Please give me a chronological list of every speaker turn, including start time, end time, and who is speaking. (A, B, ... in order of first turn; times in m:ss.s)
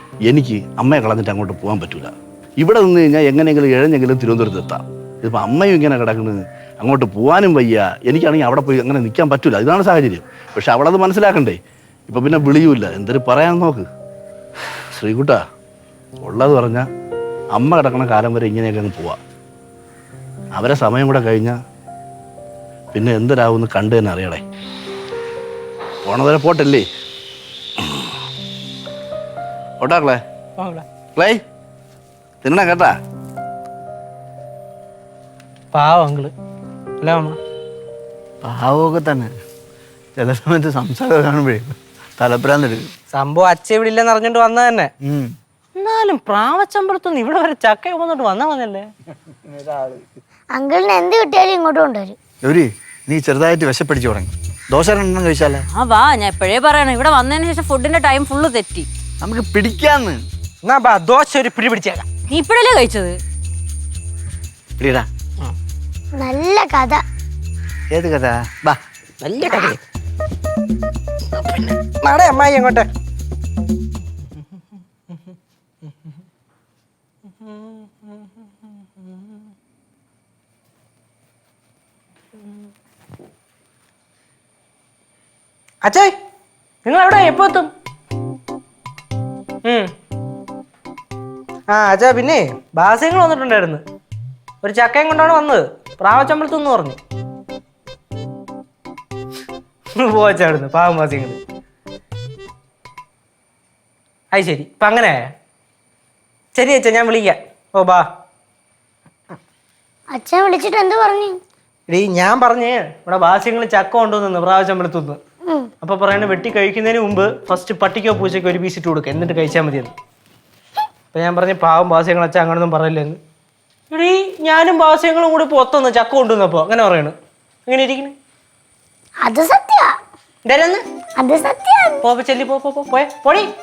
0:00.2-0:13.9 A
0:15.0-0:15.4 A
0:16.2-0:16.9 A
0:17.5-0:19.2 A
0:20.5-0:21.6 A
0:22.9-0:24.4 A
0:26.0-0:26.9 A
0:27.8-0:28.1 A
0:29.8-0:30.2 A
0:30.6-0:30.8 B
0:31.2-0:31.4 A
0:32.4-0:32.9 A
0:35.7-0:36.3 B
0:37.0-0:37.4 B
0:38.4-0:39.3 C
0:40.2-0:42.9 C
0:43.1-0:44.9 B
0:45.0-0:45.3 C
0:45.8-0:48.9 B
0:49.7-0:49.9 C
0:50.5-0:52.2 D
0:52.4-0:55.7 C
0:55.7-0:58.9 E
0:59.2-1:00.2 C
1:00.6-1:02.1 B
1:02.3-1:03.2 E
1:04.8-1:05.1 C
1:06.2-1:07.0 D
1:07.9-1:08.8 C
1:09.2-1:09.7 E
1:09.4-1:09.7 B
1:11.8-1:12.9 B
1:17.4-1:17.9 B
1:25.8-1:26.1 B
1:26.8-1:27.7 B
1:29.6-1:29.9 B
1:31.7-1:33.8 B
1:34.6-1:37.0 B
1:40.0-1:41.4 B
1:44.3-1:45.2 B
1:46.5-1:48.0 B
1:50.1-1:51.4 D
1:51.9-1:55.2 B
1:55.8-1:59.9 B
2:01.1-2:03.2 B
2:03.9-2:07.2 B
2:07.7-2:08.2 B
2:09.2-2:10.0 D
2:10.4-2:10.8 B
2:11.2-2:12.0 D
2:12.0-2:13.5 B